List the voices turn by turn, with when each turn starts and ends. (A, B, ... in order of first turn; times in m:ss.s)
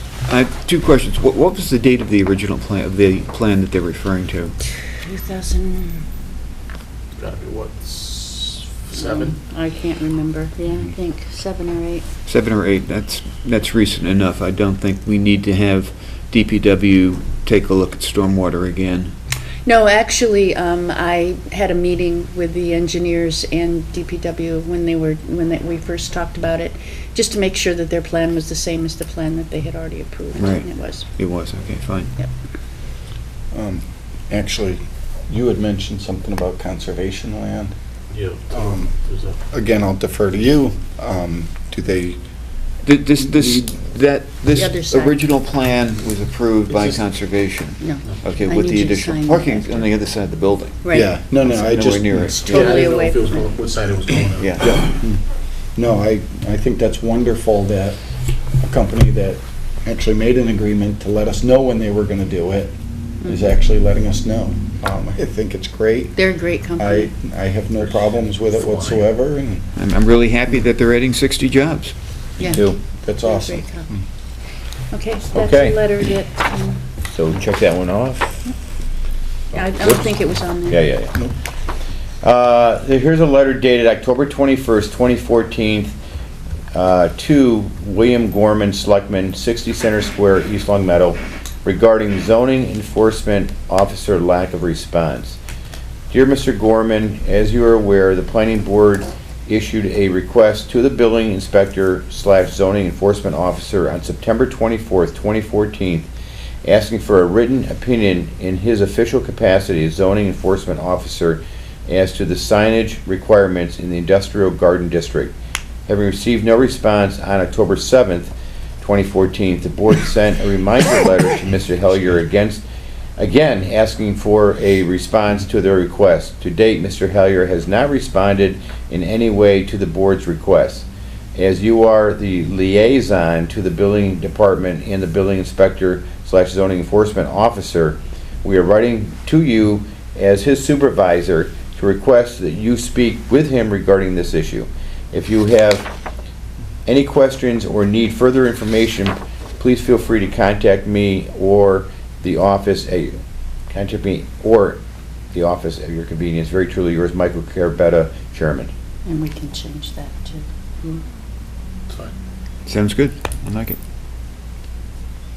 0:00.3-0:04.5 A
0:04.9-0:06.0 B
0:07.2-0:09.4 C
0:09.0-0:12.0 B
0:12.2-0:19.1 A
0:19.7-0:31.1 B
0:30.4-0:32.1 A
0:33.5-0:37.7 D
0:38.1-0:39.4 C
0:38.5-0:38.9 D
0:39.5-0:42.2 D
0:42.8-0:50.8 A
0:44.5-0:45.2 B
0:47.8-0:49.9 B
0:50.8-0:51.2 B
0:50.9-0:52.4 D
0:51.5-0:52.8 A
0:52.3-0:53.5 B
0:52.5-0:54.6 C
0:54.4-0:54.9 A
0:54.7-0:55.2 D
0:55.8-0:58.0 D
0:58.6-1:06.2 D
1:06.2-1:07.1 B
1:06.8-1:09.6 D
1:07.8-1:09.1 C
1:09.8-1:11.9 A
1:12.4-1:12.7 B
1:12.4-1:14.0 D
1:12.4-1:12.8 E
1:13.2-1:13.9 B
1:14.9-1:16.8 B
1:15.3-1:15.8 E
1:17.1-1:18.4 E
1:19.5-1:20.8 B
1:19.8-1:20.1 E
1:20.7-1:21.2 E
1:22.2-1:26.0 E
1:26.7-1:35.4 E
1:36.1-1:46.1 E
1:46.6-1:55.3 E
1:55.9-2:02.6 E
2:03.2-2:25.9 E
2:26.9-2:33.2 E
2:33.7-2:34.8 E
2:35.3-2:38.7 E
2:39.0-2:41.0 B
2:42.6-2:43.8 A